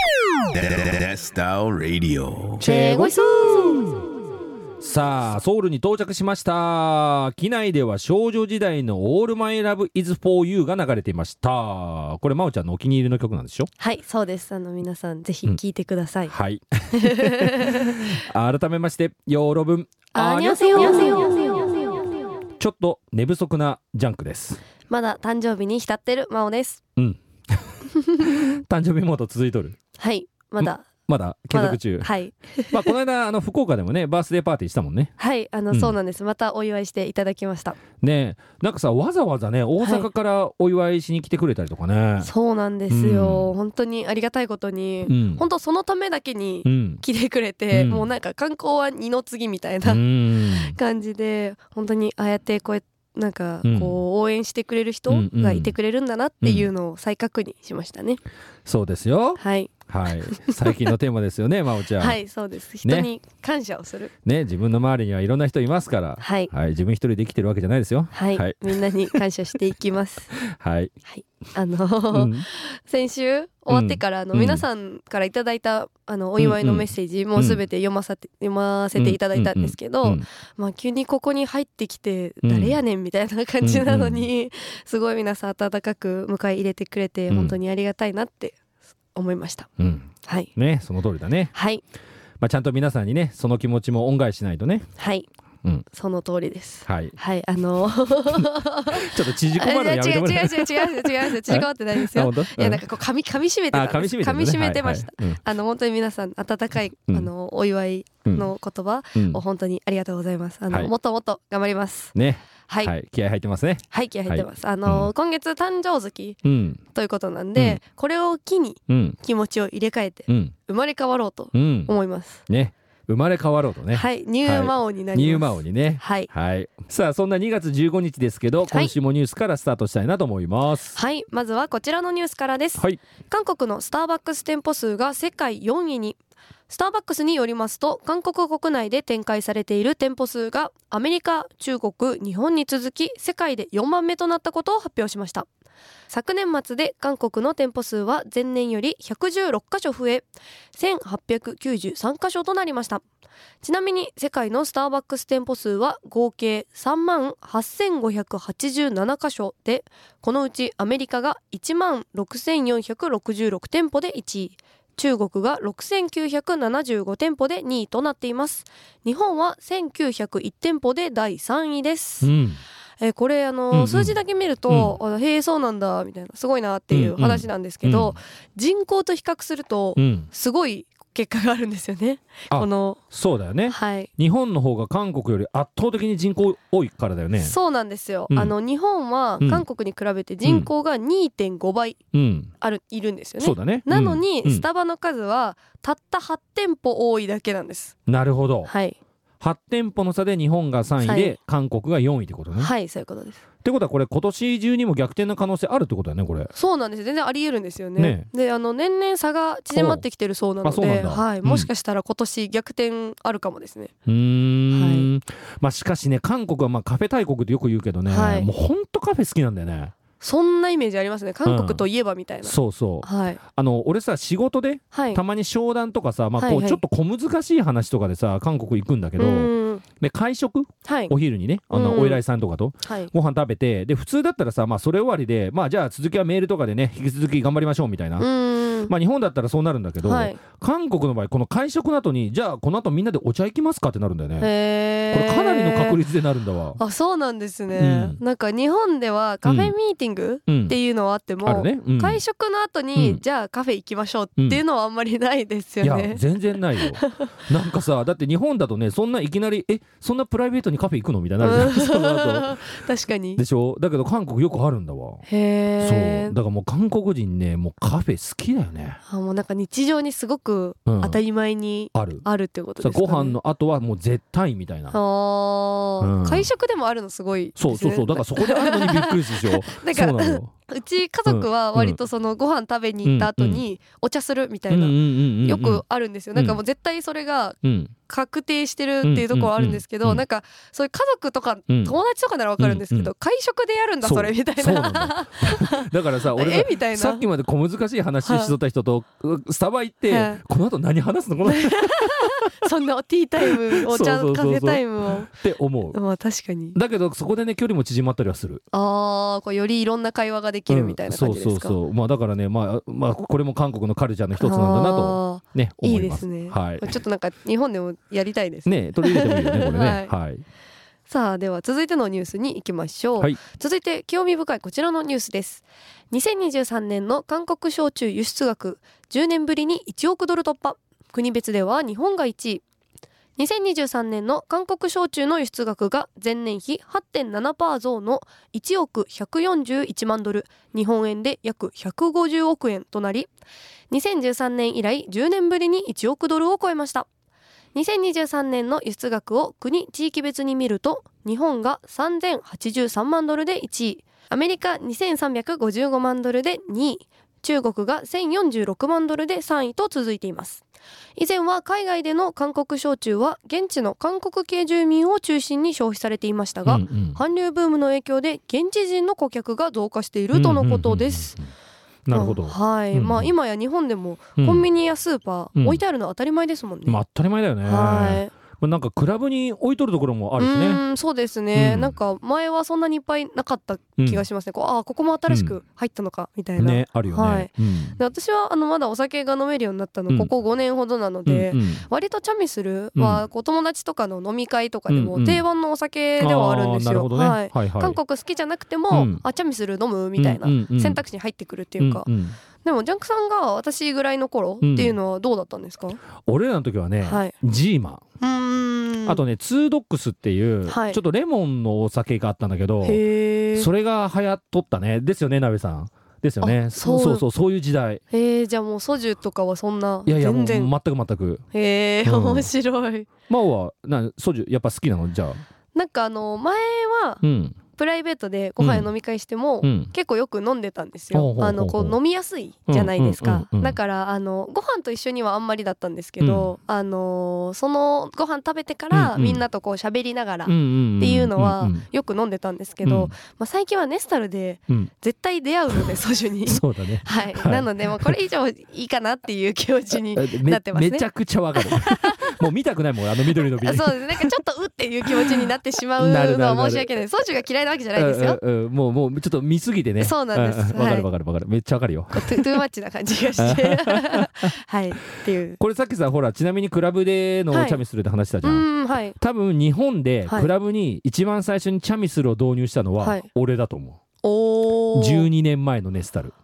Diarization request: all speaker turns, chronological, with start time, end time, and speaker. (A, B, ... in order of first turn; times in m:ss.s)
0:00.5-0:02.6 A
0:02.6-0:03.9 B
0:02.6-0:03.9 C
0:04.8-0:13.7 C
0:13.8-0:16.3 B
0:16.3-0:21.5 C
0:16.9-0:18.0 B
0:20.1-0:21.8 B
0:22.6-0:24.6 C
0:24.9-0:26.8 B
0:27.0-0:29.8 C
0:27.9-0:28.6 B
0:30.0-0:30.9 B
0:30.6-0:32.1 C
0:31.5-0:32.9 B
0:32.7-0:35.1 C
0:35.2-0:37.8 B
0:35.7-0:36.0 C
0:38.0-0:42.3 C
0:39.8-0:40.1 B
0:42.2-0:58.2 B
0:42.9-0:43.5 C
0:45.0-0:45.4 C
0:46.6-0:47.0 C
0:47.7-0:48.1 C
0:49.8-0:50.8 C
0:53.6-0:54.0 C
0:55.1-0:55.8 C
0:56.4-0:56.7 C
0:58.6-1:02.2 C
0:59.4-1:00.9 B
1:02.0-1:04.1 B
1:02.8-1:03.1 C
1:04.2-1:09.2 C
1:06.2-1:06.5 B
1:08.1-1:10.3 B
1:10.4-1:10.9 C
1:11.0-1:28.6 B
1:12.1-1:12.5 C
1:13.7-1:14.6 C
1:16.4-1:17.6 C
1:19.0-1:20.2 C
1:22.4-1:22.8 C
1:23.6-1:24.3 C
1:27.3-1:27.6 C
1:29.1-1:29.7 B
1:29.8-1:31.5 C
1:30.2-1:30.5 B
1:31.5-1:31.8 B
1:32.4-1:34.9 C
1:35.0-1:35.3 B
1:35.8-1:52.1 B
1:36.8-1:37.2 C
1:38.3-1:42.8 C
1:43.7-1:45.4 C
1:49.1-1:49.4 C
1:52.1-1:55.1 C
1:52.7-1:52.9 B
1:53.9-2:02.4 B
1:56.4-1:56.8 C
1:57.5-1:57.8 C
1:58.9-1:59.2 C
2:00.3-2:00.5 C
2:01.5-2:01.9 C
2:02.5-2:11.0 C
2:03.9-2:06.3 B
2:08.7-2:08.9 B
2:10.9-2:16.2 B
2:16.7-2:25.5 B
2:26.1-2:33.0 B
2:33.6-2:52.3 B
2:52.2-2:52.6 C
2:53.0-3:03.0 B
2:53.7-2:54.2 C
2:54.7-2:55.0 C
2:56.9-2:58.2 C
3:00.0-3:00.3 C
3:02.5-3:07.5 C
3:03.7-3:04.1 B
3:07.4-3:12.0 B
3:10.4-3:10.7 C
3:12.1-3:12.5 C
3:12.6-3:17.9 B
3:13.4-3:14.6 C
3:18.1-3:18.7 C
3:18.6-3:19.0 B
3:19.4-3:22.7 C
3:21.0-3:21.4 B
3:22.5-3:23.4 B
3:23.6-3:26.5 C
3:26.5-3:33.9 B
3:28.0-3:28.3 C
3:29.7-3:30.0 C
3:30.6-3:31.7 C
3:34.0-3:39.9 C
3:34.7-3:35.1 B
3:38.1-3:38.5 B
3:40.2-3:43.4 B
3:41.4-3:41.8 C
3:42.4-3:58.3 C
3:44.9-3:45.2 B
3:46.4-3:46.8 B
3:49.2-3:49.8 B
3:50.8-3:51.1 B
3:51.7-3:52.2 B
3:52.8-3:53.1 B
3:58.2-3:58.9 B
3:58.8-4:04.5 C
4:00.0-4:00.4 B
4:04.4-4:06.0 B
4:05.1-4:06.8 C
4:06.8-4:17.3 B
4:07.7-4:08.2 C
4:09.4-4:09.7 C
4:10.5-4:10.8 C
4:11.4-4:12.2 C
4:12.9-4:13.2 C
4:14.4-4:14.6 C
4:15.8-4:22.8 C
4:21.4-4:23.4 B
4:23.4-4:25.2 C
4:25.2-4:26.3 B
4:25.8-4:29.0 C
4:29.0-4:33.4 B
4:30.8-4:31.2 C
4:31.9-4:32.2 C
4:32.8-4:35.0 C
4:34.9-4:57.3 B
4:36.0-4:36.5 C
4:37.6-4:40.5 C
4:41.2-4:42.0 C
4:43.0-4:43.6 C
4:44.7-4:45.8 C
4:46.3-4:46.6 C
4:47.6-4:47.9 C
4:49.0-4:50.2 C
4:51.7-4:52.0 C
4:52.6-4:53.1 C
4:54.0-5:02.6 C
4:58.2-4:58.5 B
5:00.1-5:00.4 B
5:01.4-5:05.3 B
5:03.4-5:06.0 C
5:05.9-5:06.8 B
5:06.7-5:08.6 C
5:08.7-5:11.8 B
5:10.7-5:16.9 C
5:14.4-5:20.1 B
5:18.6-5:20.4 C
5:21.1-5:32.6 B
5:33.4-5:43.3 B
5:43.9-5:47.1 B
5:47.7-6:00.6 B
6:01.2-6:11.4 B
6:06.6-6:07.2 C
6:10.3-6:11.5 C
6:12.0-6:13.3 C
6:12.1-6:17.0 B
6:14.4-6:14.7 C
6:15.6-6:15.8 C
6:16.8-6:20.8 C
6:17.6-6:18.3 B
6:20.4-6:42.1 B
6:21.5-6:22.0 C
6:24.0-6:24.2 C
6:25.3-6:25.6 C
6:26.6-6:28.0 C
6:31.2-6:31.9 C
6:33.0-6:33.2 C
6:34.9-6:35.4 C
6:36.2-6:38.0 C
6:38.9-6:39.2 C
6:40.2-6:41.0 C
6:41.8-6:42.4 C
6:42.6-6:46.0 B
6:44.6-6:45.0 C
6:46.2-6:48.0 C
6:47.0-6:47.3 B
6:48.2-6:49.2 B
6:49.0-6:53.0 C
6:50.6-6:51.0 B
6:52.8-6:53.7 B
6:53.5-6:58.0 C
6:56.4-6:57.2 B
6:58.1-7:00.7 B
7:00.0-7:01.4 C
7:01.5-7:03.1 B
7:02.0-7:02.5 C
7:03.3-7:05.4 C
7:05.7-7:32.4 B
7:07.2-7:07.6 C
7:08.6-7:08.9 C
7:09.6-7:09.9 C
7:11.1-7:12.0 C
7:12.7-7:13.8 C
7:16.2-7:16.5 C
7:18.9-7:19.4 C
7:20.4-7:21.8 C
7:22.8-7:23.1 C
7:26.4-7:28.1 C
7:29.9-7:34.4 C
7:33.2-7:38.4 B
7:35.0-7:37.0 C
7:37.9-7:42.6 C
7:40.0-7:41.1 B
7:42.1-7:45.6 B
7:43.4-7:44.5 C
7:45.6-7:48.6 C
7:47.5-7:47.8 B
7:48.4-7:49.2 B
7:49.2-7:54.0 C
7:53.0-7:53.3 B
7:54.2-7:55.3 B
7:54.9-7:56.3 C